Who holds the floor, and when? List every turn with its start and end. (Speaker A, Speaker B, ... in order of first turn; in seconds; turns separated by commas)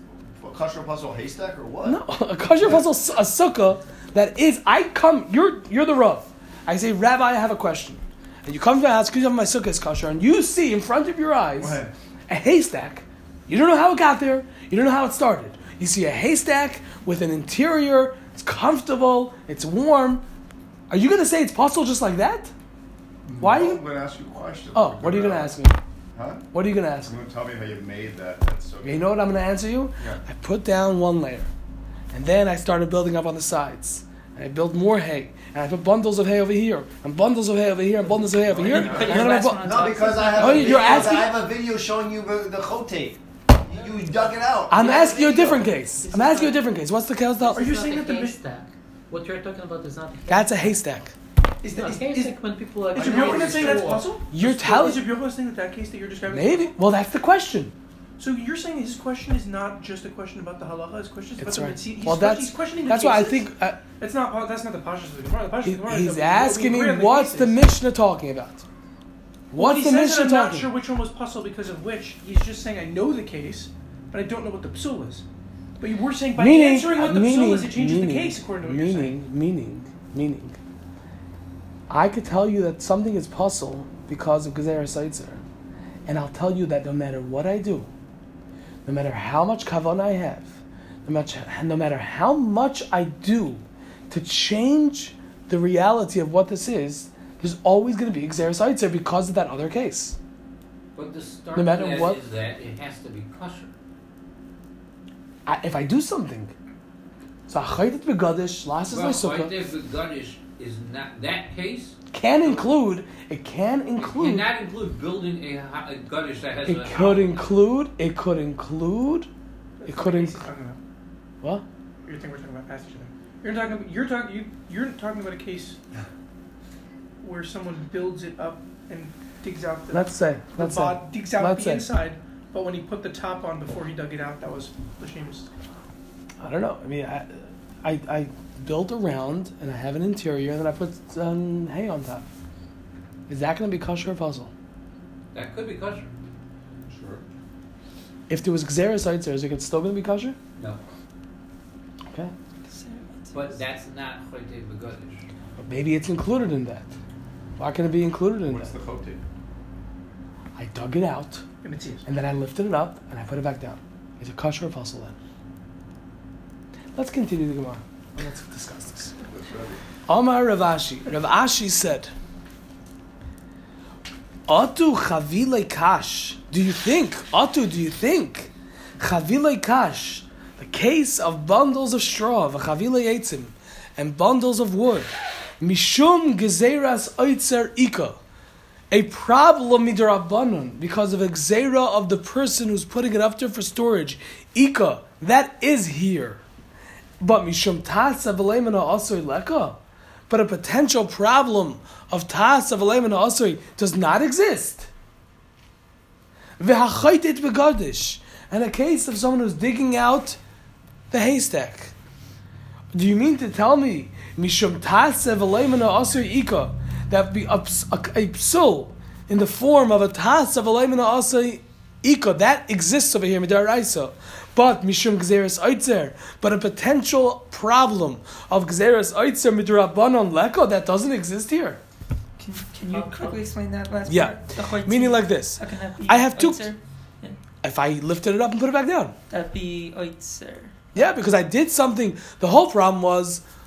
Speaker A: 0.3-2.0, Speaker B: 1.8-20.2, Speaker A: 2.5-2.9, Speaker A: 11.6-11.9, Speaker B: 20.9-22.5, Speaker A: 23.2-25.5, Speaker B: 23.4-23.8, Speaker B: 24.7-25.8, Speaker A: 26.1-26.5, Speaker B: 26.5-27.1, Speaker A: 27.0-29.1, Speaker B: 28.8-31.5, Speaker B: 32.1-41.3, Speaker A: 38.1-45.7, Speaker C: 38.6-41.2, Speaker B: 44.7-47.7, Speaker D: 45.5-46.7, Speaker D: 47.4-50.8, Speaker E: 47.5-48.4, Speaker B: 50.3-51.1, Speaker E: 51.6-56.7, Speaker D: 51.7-54.1, Speaker A: 53.0-54.0, Speaker B: 54.3-55.0, Speaker B: 56.3-57.7, Speaker E: 58.2-67.6, Speaker B: 61.4-63.8, Speaker B: 65.6-68.6, Speaker B: 69.5-70.7, Speaker E: 69.5-75.2, Speaker E: 75.8-79.2, Speaker B: 76.3-80.6, Speaker B: 81.9-85.4, Speaker B: 86.1-87.9, Speaker B: 88.8-100.2, Speaker F: 100.9-103.7, Speaker B: 101.5-102.2, Speaker B: 105.5-106.5, Speaker B: 107.5-109.5, Speaker F: 108.9-112.7, Speaker B: 112.1-114.5, Speaker F: 114.0-117.5, Speaker B: 116.6-119.3, Speaker E: 119.8-120.8, Speaker B: 119.8-120.4, Speaker E: 122.0-125.8, Speaker E: 127.2-135.5, Speaker B: 129.9-131.8, Speaker B: 136.4-142.2, Speaker B: 143.3-144.5, Speaker F: 145.3-146.1, Speaker A: 146.9-147.2, Speaker B: 148.3-150.3, Speaker F: 150.6-150.8, Speaker C: 152.7-153.6, Speaker F: 153.3-155.2, Speaker B: 155.6-156.9, Speaker B: 157.6-158.7, Speaker A: 158.4-159.2, Speaker B: 160.6-161.4, Speaker E: 161.6-162.0, Speaker B: 162.0-165.1, Speaker B: 166.9-169.1, Speaker A: 169.3-169.8, Speaker B: 170.1-172.1, Speaker B: 174.5-188.2, Speaker B: 188.9-196.4, Speaker B: 197.2-199.8, Speaker B: 200.3-204.9, Speaker B: 206.6-210.4, Speaker B: 211.1-211.9, Speaker B: 212.9-231.8, Speaker C: 232.4-237.4, Speaker D: 232.9-233.5, Speaker B: 234.1-236.7, Speaker B: 237.6-239.1, Speaker C: 239.3-241.1, Speaker B: 240.9-243.4